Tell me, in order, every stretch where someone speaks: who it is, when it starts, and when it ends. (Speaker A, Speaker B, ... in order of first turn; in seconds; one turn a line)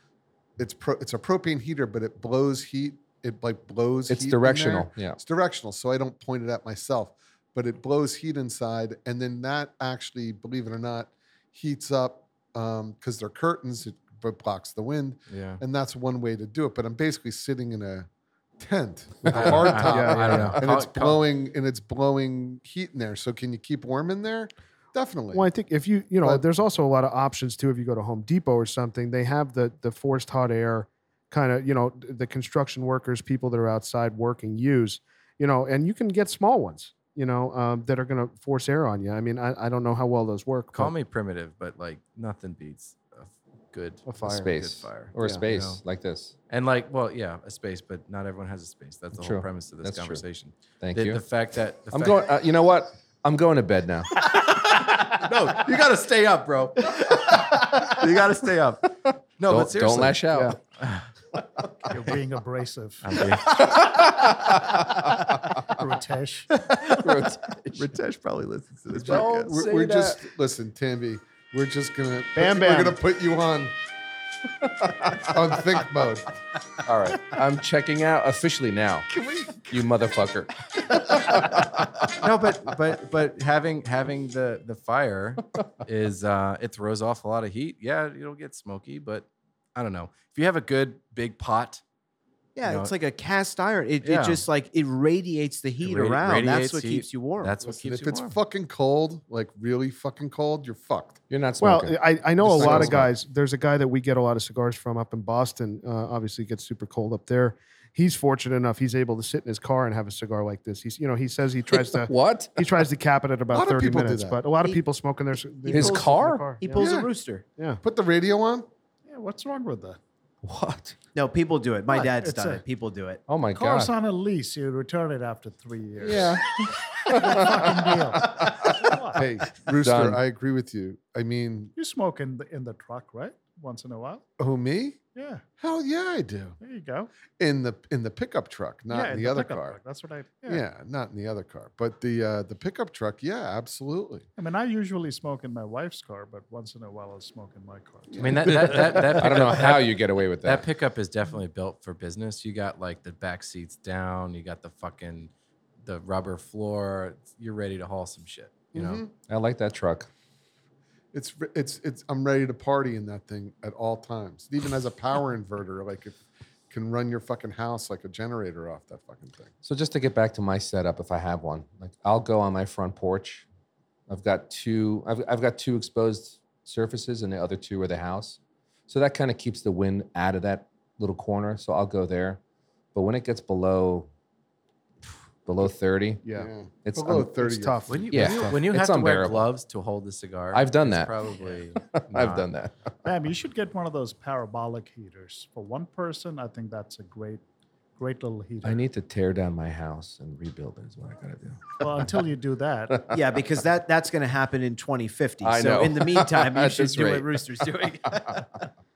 Speaker A: 0.6-18.1
Speaker B: 4.1-5.2
Speaker C: 15.3-15.6
Speaker A: 18.6-25.5
Speaker C: 19.3-21.2
Speaker D: 19.8-20.6
Speaker D: 25.3-40.9
Speaker C: 40.7-45.8
Speaker D: 44.1-44.5
Speaker B: 44.2-46.3
Speaker C: 46.5-52.3
Speaker B: 49.2-50.2
Speaker B: 50.8-51.2
Speaker B: 51.9-54.1
Speaker C: 54.2-61.1
Speaker B: 59.1-60.6
Speaker E: 61.9-63.2
Speaker C: 63.0-64.8
Speaker B: 63.6-65.2
Speaker E: 65.6-66.5
Speaker C: 66.7-69.6
Speaker B: 66.9-67.9
Speaker B: 69.0-70.2
Speaker A: 69.0-73.7
Speaker D: 72.4-73.0
Speaker B: 74.6-75.4
Speaker A: 75.1-76.3
Speaker B: 76.8-81.8
Speaker C: 79.1-79.7
Speaker C: 81.1-91.8
Speaker F: 92.6-97.6
Speaker C: 92.6-92.9
Speaker C: 94.0-94.5
Speaker C: 95.8-98.4
Speaker A: 97.7-101.2
Speaker B: 101.3-103.1
Speaker D: 101.6-116.9
Speaker A: 102.6-103.0
Speaker B: 111.7-112.7
Speaker A: 113.5-114.4
Speaker F: 115.6-117.5
Speaker B: 115.7-116.5
Speaker A: 116.8-117.1
Speaker A: 117.8-118.7
Speaker E: 119.1-120.0
Speaker B: 120.4-121.0
Speaker F: 121.2-123.2
Speaker E: 121.9-122.6
Speaker B: 123.3-123.9
Speaker E: 123.5-129.3
Speaker B: 126.0-128.9
Speaker A: 129.2-131.7
Speaker B: 129.8-130.2
Speaker E: 131.8-134.2
Speaker A: 134.4-135.0
Speaker E: 135.2-135.4
Speaker A: 135.6-136.6
Speaker E: 136.6-137.1
Speaker A: 137.4-139.8
Speaker E: 138.9-140.7
Speaker A: 140.5-144.3
Speaker E: 144.4-148.7
Speaker C: 148.2-155.3
Speaker B: 148.6-150.7
Speaker C: 155.8-159.0
Speaker A: 158.7-159.1
Speaker B: 159.3-160.1
Speaker A: 161.1-166.2
Speaker A: 166.7-169.5
Speaker B: 169.6-173.5
Speaker B: 174.1-182.4
Speaker B: 182.9-184.1
Speaker B: 185.4-186.2
Speaker D: 186.2-186.5
Speaker A: 186.4-188.0
Speaker B: 186.8-187.3
Speaker D: 187.3-188.6
Speaker C: 187.9-192.5
Speaker B: 188.1-189.5
Speaker B: 190.5-191.2
Speaker B: 191.8-192.9
Speaker E: 193.1-197.4
Speaker E: 198.0-198.8
Speaker B: 198.6-202.1
Speaker E: 201.8-203.1
Speaker F: 203.1-208.5
Speaker B: 205.4-207.4